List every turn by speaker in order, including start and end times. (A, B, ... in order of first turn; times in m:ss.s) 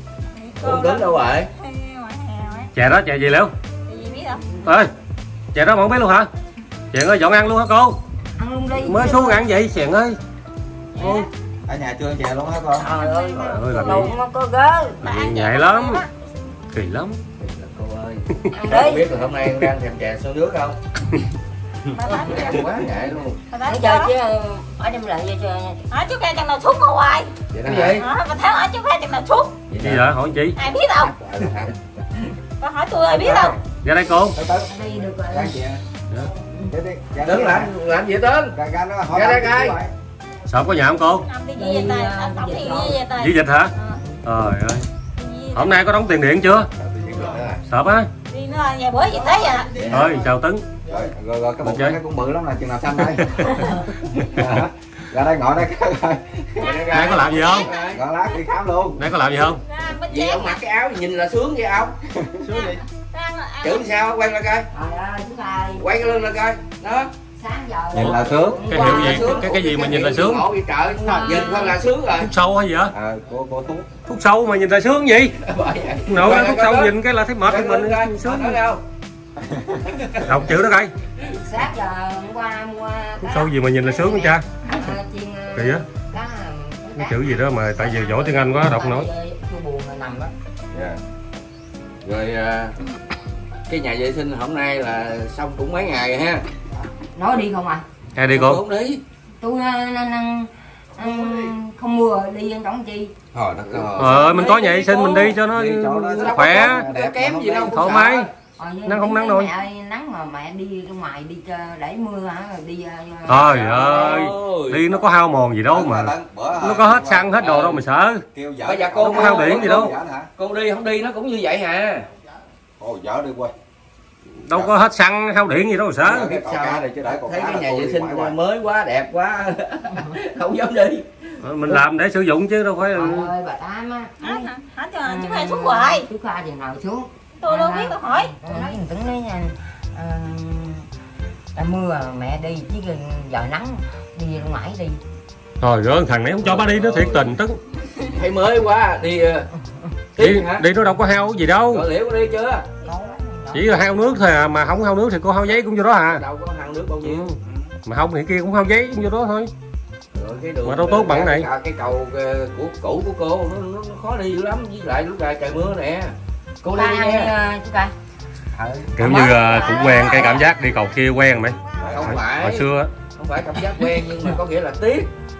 0:00.3-0:02.7 A
0:00.6-0:01.5 B
0:02.7-0:03.5 C
0:03.9-0:04.4 A
0:04.6-0:04.9 C
0:05.5-0:06.3 C
0:06.9-0:08.0 C
0:08.4-0:09.4 D
0:08.8-0:10.2 C
0:11.0-0:11.3 C
0:11.0-0:11.3 A
0:11.6-0:12.8 E
0:12.8-0:14.1 A
0:12.8-0:15.0 D
0:13.4-0:14.1 C
0:15.0-0:16.0 C
0:15.0-0:16.1 A
0:16.7-0:17.2 C
0:17.4-0:20.8 B
0:18.5-0:19.2 D
0:21.9-0:22.7 A
0:22.0-0:22.5 D
0:22.3-0:23.4 B
0:23.5-0:24.1 A
0:23.6-0:25.8 D
0:25.9-0:27.3 A
0:27.5-0:28.0 B
0:27.6-0:28.0 E
0:28.0-0:29.6 A
0:29.7-0:30.0 B
0:29.8-0:30.6 C
0:30.6-0:31.1 A
0:31.0-0:31.7 E
0:32.6-0:33.6 A
0:33.1-0:33.6 E
0:33.8-0:34.4 C
0:34.3-0:35.8 E
0:34.7-0:35.6 D
0:36.6-0:37.7 E
0:37.2-0:38.5 B
0:38.5-0:39.9 E
0:39.1-0:39.8 B
0:40.5-0:41.3 C
0:41.1-0:44.0 A
0:41.5-0:43.0 D
0:43.2-0:43.7 C
0:44.2-0:44.9 C
0:45.2-0:45.9 A
0:45.5-0:46.7 C
0:46.8-0:47.5 E
0:47.3-0:47.6 B
0:47.7-0:48.1 C
0:48.3-0:49.8 A
0:49.8-0:50.1 B
0:49.9-0:50.6 C
0:50.9-0:56.8 E
0:51.6-0:52.0 C
0:56.6-0:58.0 A
0:56.6-0:58.0 B
0:56.9-0:57.7 C
0:57.9-0:59.0 E
0:59.0-0:59.6 C
0:59.4-1:00.6 A
1:00.1-1:02.0 B
1:02.2-1:02.8 E
1:02.4-1:03.9 A
1:03.6-1:04.7 B
1:04.7-1:05.9 D
1:05.8-1:07.2 B
1:07.3-1:09.7 D
1:07.9-1:08.8 E
1:08.6-1:10.4 C
1:08.7-1:12.3 B
1:10.9-1:11.8 D
1:12.1-1:12.9 C
1:12.9-1:13.9 E
1:14.0-1:15.3 C
1:15.4-1:18.8 B
1:16.1-1:18.6 C
1:19.5-1:20.5 E
1:20.2-1:20.9 C
1:21.2-1:30.3 D
1:23.2-1:24.4 C
1:25.5-1:25.8 C
1:27.0-1:29.1 C
1:30.7-1:31.0 B
1:32.0-1:32.8 B
1:33.7-1:36.4 B
1:37.1-1:37.8 D
1:38.1-1:38.6 C
1:38.3-1:39.0 B
1:39.4-1:43.1 D
1:43.3-1:45.4 B
1:43.6-1:44.2 E
1:44.0-1:46.8 C
1:44.2-1:44.6 D
1:45.5-1:48.0 E
1:46.2-1:48.3 B
1:47.7-1:48.3 C
1:48.5-1:54.3 D
1:48.8-1:49.5 C
1:53.3-1:58.2 C
1:53.5-1:55.0 B
1:55.7-1:57.4 E
1:57.4-1:57.7 B
1:58.3-2:00.3 E
1:58.6-2:02.0 B
1:59.0-1:59.9 C
2:02.8-2:03.5 E
2:04.4-2:06.3 C
2:06.0-2:08.4 E
2:06.3-2:11.1 B
2:11.4-2:13.3 C
2:12.9-2:14.5 D
2:14.2-2:16.0 A
2:15.0-2:20.9 D
2:17.4-2:18.7 A
2:21.5-2:25.0 D
2:25.6-2:27.6 C
2:26.4-2:27.4 B
2:28.1-2:29.5 B
2:30.2-2:30.6 B
2:30.2-2:31.9 C
2:31.7-2:32.7 B
2:32.8-2:34.4 D
2:33.5-2:36.2 C
2:36.1-2:37.2 B
2:37.0-2:39.5 C
2:37.4-2:37.7 E
2:40.1-2:47.3 B
2:40.6-2:41.5 C
2:46.7-2:47.9 D
2:48.5-2:50.4 D
2:49.0-2:52.9 C
2:49.0-2:52.0 A
2:51.8-2:52.2 E
2:51.9-2:52.6 B
2:53.2-2:55.1 B